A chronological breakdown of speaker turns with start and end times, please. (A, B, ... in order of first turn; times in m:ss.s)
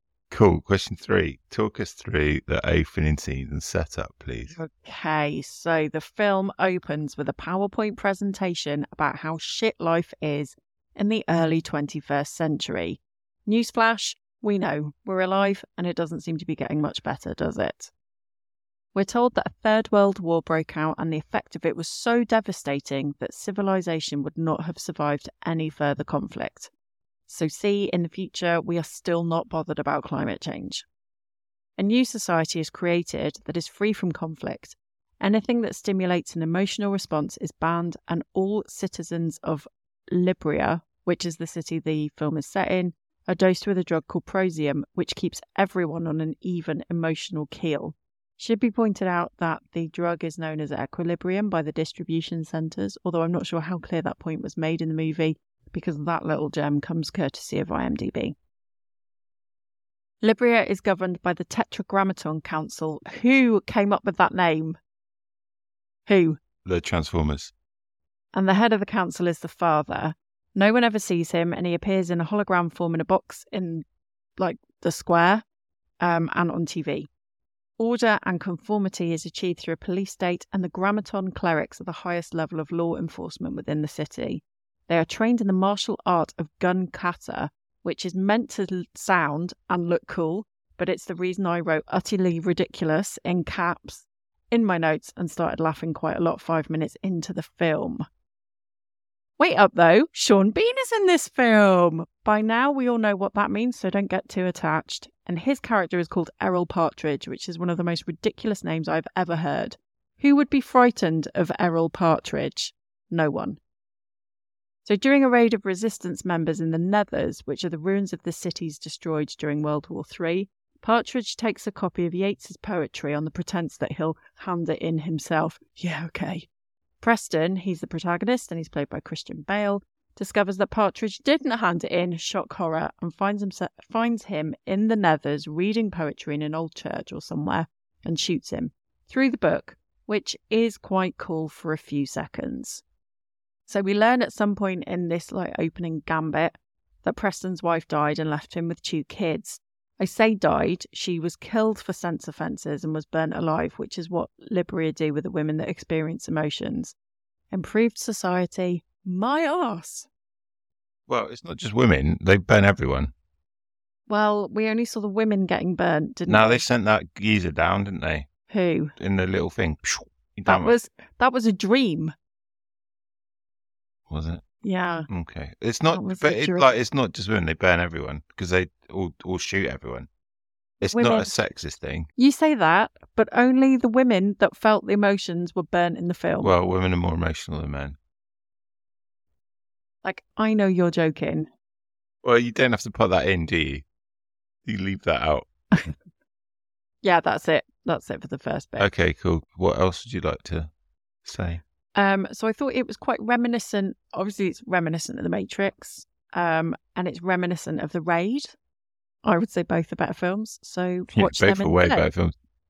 0:00.3-0:04.6 A
0:04.5-0:17.9 B
0:18.9-0:26.7 B
0:27.3-0:30.8 B
0:31.8-0:58.4 B
1:00.2-1:04.8 B
1:06.0-1:06.4 B
1:06.6-1:07.5 A
1:08.3-1:13.8 B
1:14.4-1:15.4 B
1:16.0-1:17.1 B
1:17.8-1:38.0 B
1:39.4-1:53.6 B
1:54.8-2:06.5 B
2:07.0-2:22.8 B
2:23.7-2:36.9 B
2:37.5-2:40.1 B
2:41.1-2:43.1 A
2:44.1-2:46.6 B
2:46.3-2:48.3 A
2:48.5-2:48.9 B
2:49.0-2:50.8 A
2:50.4-2:52.1 B
2:54.1-2:54.4 A
2:54.6-2:55.1 B
2:55.1-3:00.1 A
2:55.9-2:56.7 B
3:00.8-3:01.3 B
3:00.8-3:02.1 A
3:02.2-3:06.5 B
3:06.4-3:08.0 A
3:10.0-3:11.5 B
3:12.2-3:13.8 A
3:14.6-3:15.5 A
3:17.0-3:18.9 B
3:18.8-3:20.7 A
3:21.2-3:21.6 A
3:21.9-3:28.5 B
3:29.2-3:32.1 B
3:31.1-3:32.3 A